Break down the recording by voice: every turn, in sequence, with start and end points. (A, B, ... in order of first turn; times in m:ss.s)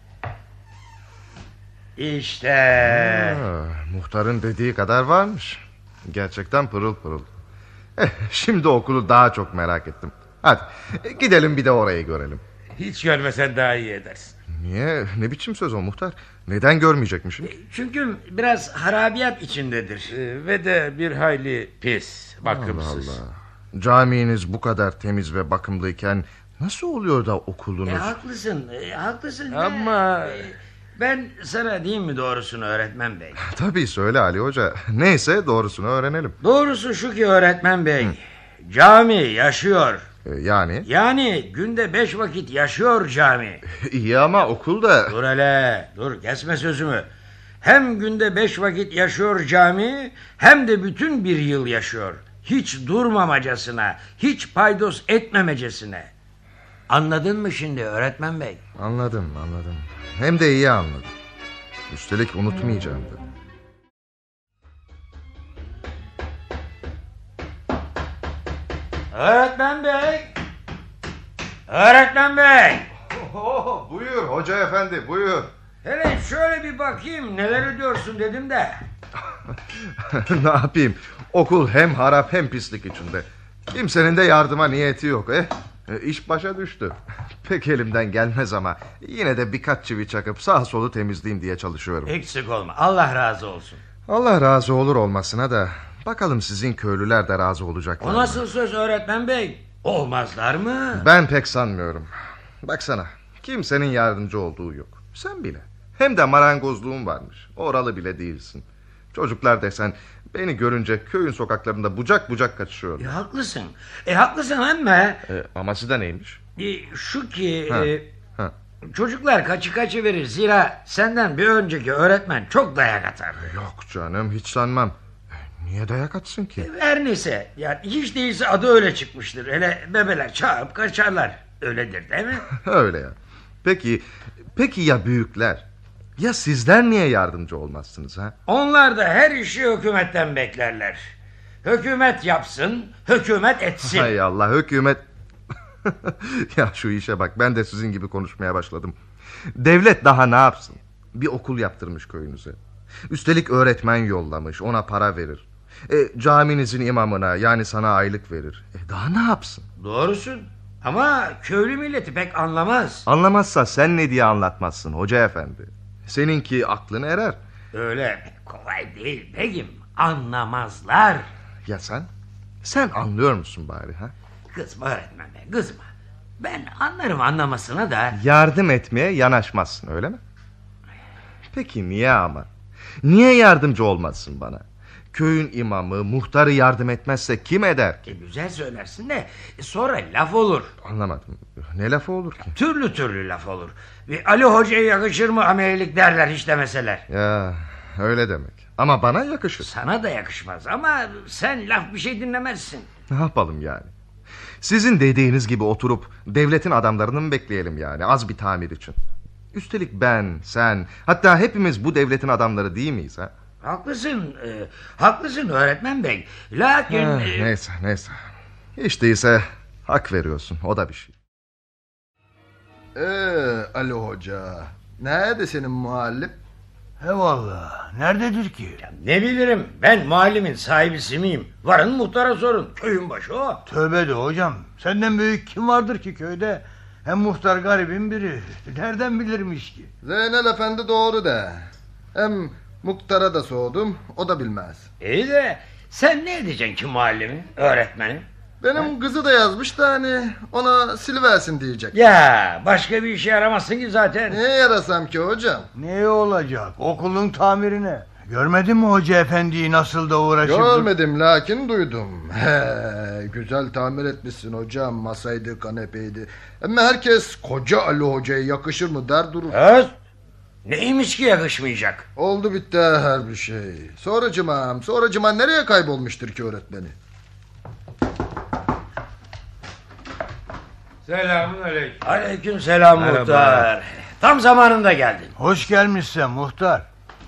0:02.0-0:03.4 A
0:02.8-0:07.2 B
0:08.0-0:12.4 B
0:12.8-0:14.3 C
0:14.5-0:17.5 B
0:17.4-0:20.1 A
0:20.1-0:23.2 C
0:22.4-0:28.1 B
0:27.8-0:33.4 A
0:29.5-0:30.5 C
0:33.4-0:36.4 B
0:36.4-0:40.0 A
0:40.2-0:40.9 B
0:40.9-0:43.6 A
0:43.7-0:45.1 B
0:45.1-0:47.1 A
0:47.6-0:56.1 A
0:56.9-0:58.6 A
0:58.8-1:01.1 B
1:01.9-1:03.2 B
1:09.1-1:10.3 A
1:11.7-1:12.9 A
1:13.1-1:15.5 B
1:15.8-1:18.8 A
1:20.0-1:32.1 B
1:32.0-1:33.8 A
1:34.1-1:38.4 B
1:38.0-1:41.0 A
1:40.9-1:42.1 B
1:42.6-1:53.2 B
1:53.0-1:55.2 A
1:55.2-1:56.4 B
1:56.6-1:58.1 A
1:57.7-1:58.5 B
1:58.8-2:03.5 A
2:03.4-2:06.7 B
2:06.6-2:12.5 A
2:12.5-2:15.6 B
2:16.2-2:18.4 B
2:18.5-2:21.0 A
2:21.6-2:24.1 A
2:23.8-2:25.0 B
2:25.8-2:29.0 B
2:29.5-2:32.6 B
2:33.1-2:39.6 B
2:39.8-2:43.0 A
2:43.0-2:47.4 B
2:47.7-2:51.3 A
2:51.6-2:52.1 B
2:52.6-2:54.1 B
2:54.5-2:55.9 A
2:56.4-2:58.2 A
2:58.1-3:00.2 B
3:01.5-3:02.5 B
3:03.0-3:08.0 B
3:08.1-3:10.7 A
3:10.8-3:12.5 B
3:12.5-3:17.0 A
3:17.1-3:19.7 B
3:19.6-3:22.9 A
3:23.1-3:23.9 B
3:24.6-3:29.0 B
3:29.5-3:33.3 B
3:33.6-3:37.5 A
3:36.9-3:38.2 B
3:38.8-3:41.1 B
3:42.9-3:46.4 D
3:47.0-3:48.8 E
3:48.8-3:53.6 A
3:53.6-3:59.9 E
4:00.0-4:01.6 D
4:02.1-4:04.9 D
4:05.0-4:08.2 A
4:08.6-4:11.9 D
4:11.9-4:14.4 A
4:14.3-4:15.7 D
4:15.8-4:20.9 E
4:20.4-4:29.6 D
4:29.5-4:29.9 A
4:30.6-4:32.0 A
4:32.2-4:36.9 D
4:41.0-4:42.2 C
4:42.0-4:45.3 A
4:43.0-4:43.7 C
4:45.4-4:46.9 E